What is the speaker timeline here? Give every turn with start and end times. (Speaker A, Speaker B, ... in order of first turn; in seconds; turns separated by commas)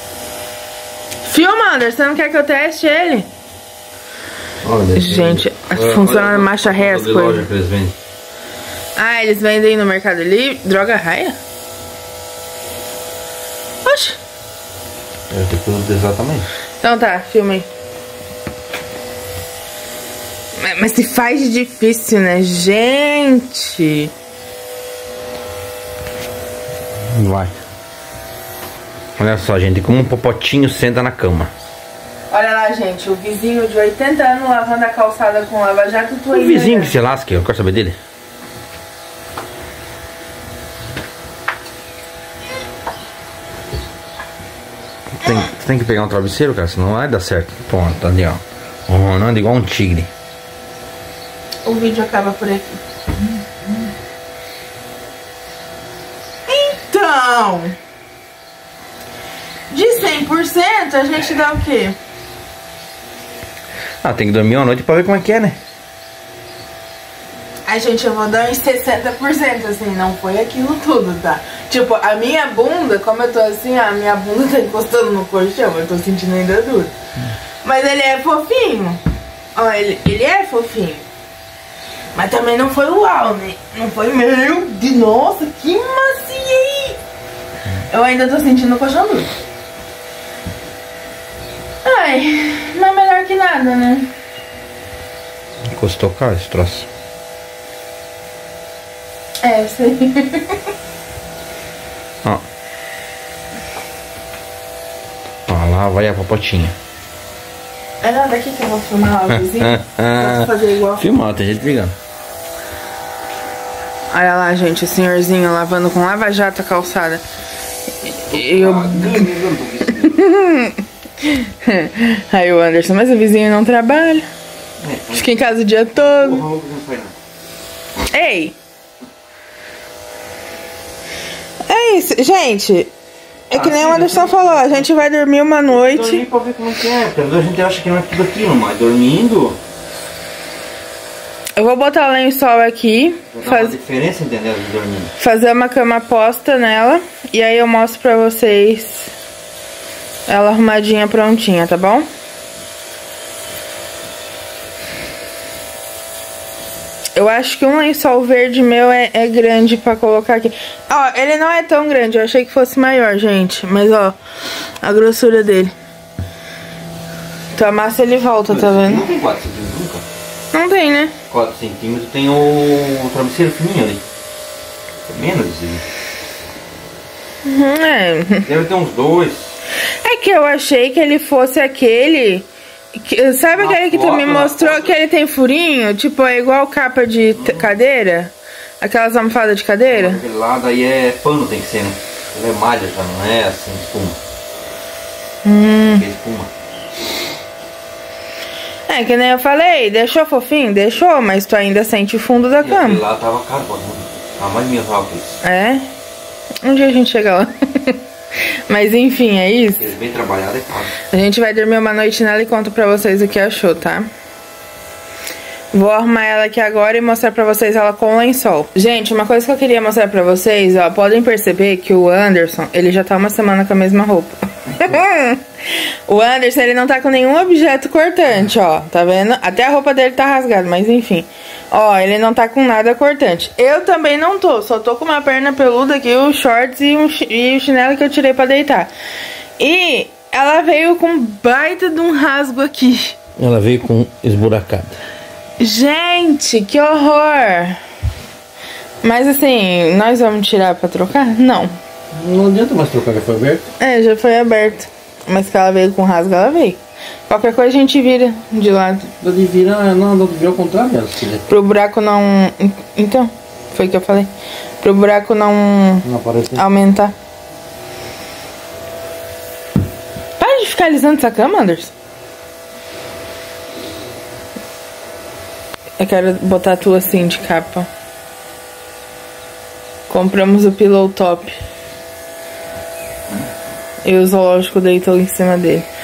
Speaker A: 1.2-3.3, Speaker B: 4.6-8.0, Speaker A: 5.0-7.5, Speaker A: 8.9-11.3, Speaker A: 13.8-14.2, Speaker B: 15.3-16.5, Speaker A: 16.8-17.7, Speaker A: 20.6-24.1, Speaker B: 27.1-27.5, Speaker B: 29.2-31.5, Speaker A: 32.3-37.0, Speaker B: 36.3-38.0, Speaker B: 45.2-50.1, Speaker A: 51.6-52.8, Speaker A: 56.5-57.8, Speaker A: 59.7-62.0, Speaker B: 64.0-65.6, Speaker A: 67.7-76.9, Speaker A: 77.6-79.0, Speaker A: 79.5-81.0, Speaker A: 82.1-87.0, Speaker A: 87.9-89.3, Speaker A: 91.8-94.1, Speaker B: 95.7-96.9, Speaker A: 99.4-100.6, Speaker B: 105.5-106.7, Speaker A: 108.0-111.0, Speaker B: 109.3-111.9, Speaker A: 114.1-117.2, Speaker A: 118.0-119.3, Speaker B: 118.3-120.2, Speaker A: 120.0-124.2, Speaker B: 124.8-125.3, Speaker A: 125.1-126.4, Speaker B: 125.9-127.2, Speaker A: 128.1-128.6, Speaker A: 131.7-132.9, Speaker A: 133.5-136.2, Speaker B: 133.5-135.1, Speaker B: 135.7-139.6, Speaker A: 141.6-143.7, Speaker B: 143.3-145.1, Speaker A: 145.2-149.1, Speaker A: 150.3-152.1, Speaker A: 157.2-164.2, Speaker A: 164.8-165.7, Speaker A: 167.5-169.0, Speaker B: 168.5-170.0, Speaker A: 170.5-171.1, Speaker B: 171.3-174.0, Speaker B: 175.1-175.8, Speaker A: 177.4-178.4, Speaker B: 178.4-179.5, Speaker A: 180.0-190.2, Speaker B: 183.5-184.9, Speaker B: 187.3-187.7, Speaker B: 189.8-194.2, Speaker A: 195.4-196.0, Speaker B: 195.8-196.5, Speaker A: 198.9-203.0, Speaker B: 202.6-205.4, Speaker A: 205.4-205.9, Speaker A: 206.6-208.0, Speaker A: 208.7-209.9, Speaker B: 209.8-210.9, Speaker A: 211.1-214.1, Speaker A: 215.7-238.9, Speaker A: 239.6-243.2, Speaker B: 243.4-245.0, Speaker A: 245.6-247.8, Speaker A: 249.0-251.7, Speaker B: 252.1-253.7, Speaker A: 253.8-259.1, Speaker B: 259.2-261.5, Speaker A: 261.5-264.3, Speaker A: 264.8-267.1, Speaker B: 266.0-266.7, Speaker A: 270.4-271.9, Speaker A: 276.0-277.9, Speaker A: 280.1-281.5, Speaker A: 284.0-285.8